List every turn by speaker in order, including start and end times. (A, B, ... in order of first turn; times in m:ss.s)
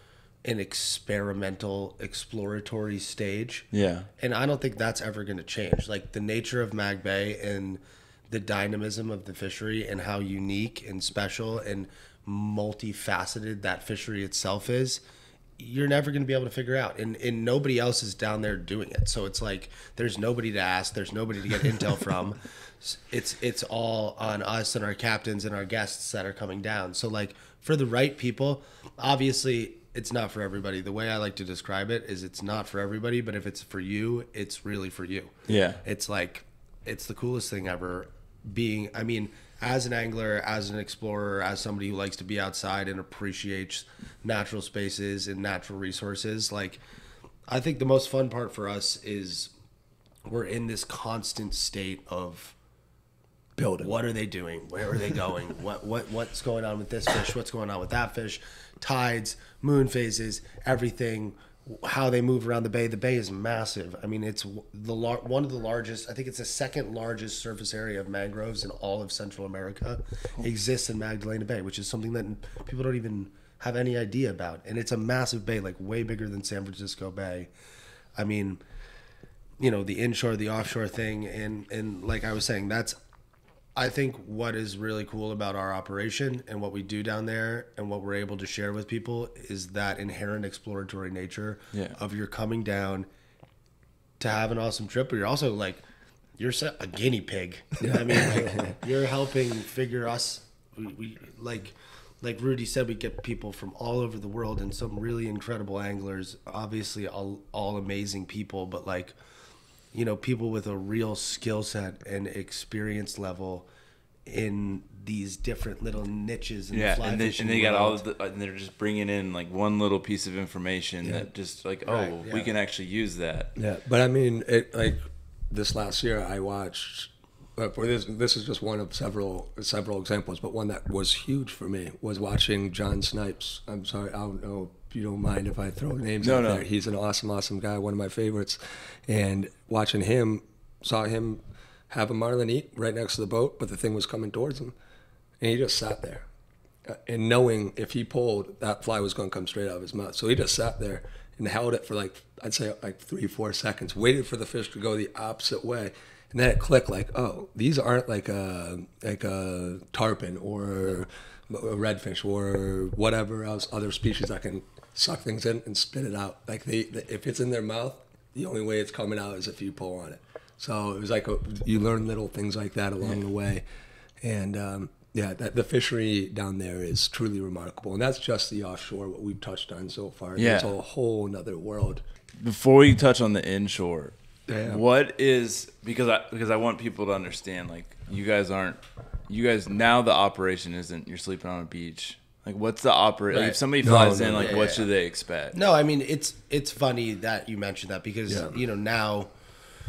0:00.4-0:03.7 A
0:03.7-0:04.1 B
0:04.2-0:15.0 A
0:15.6-0:46.8 A
0:35.5-0:35.8 B
0:47.5-0:49.5 A
0:50.3-0:52.6 A
0:53.6-0:53.9 C
0:53.8-1:17.5 A
1:18.2-1:18.6 A
1:19.6-1:23.0 A
1:23.8-1:33.1 A
1:34.2-1:35.8 A
1:36.4-1:49.1 A
1:37.8-1:38.8 C
1:49.9-1:53.7 A
1:54.3-1:58.0 A
1:56.7-2:03.5 B
2:01.0-2:01.3 C
2:01.9-2:02.6 A
2:03.6-2:24.7 C
2:16.2-2:16.6 B
2:25.4-2:26.2 C
2:26.9-2:53.6 C
2:54.2-3:02.0 C
3:00.4-3:00.7 B
3:02.4-3:15.6 B
3:04.5-3:04.8 C
3:13.3-3:13.6 A
3:13.8-3:14.6 C
3:14.3-3:14.9 A
3:15.5-3:19.3 A
3:18.3-3:18.6 C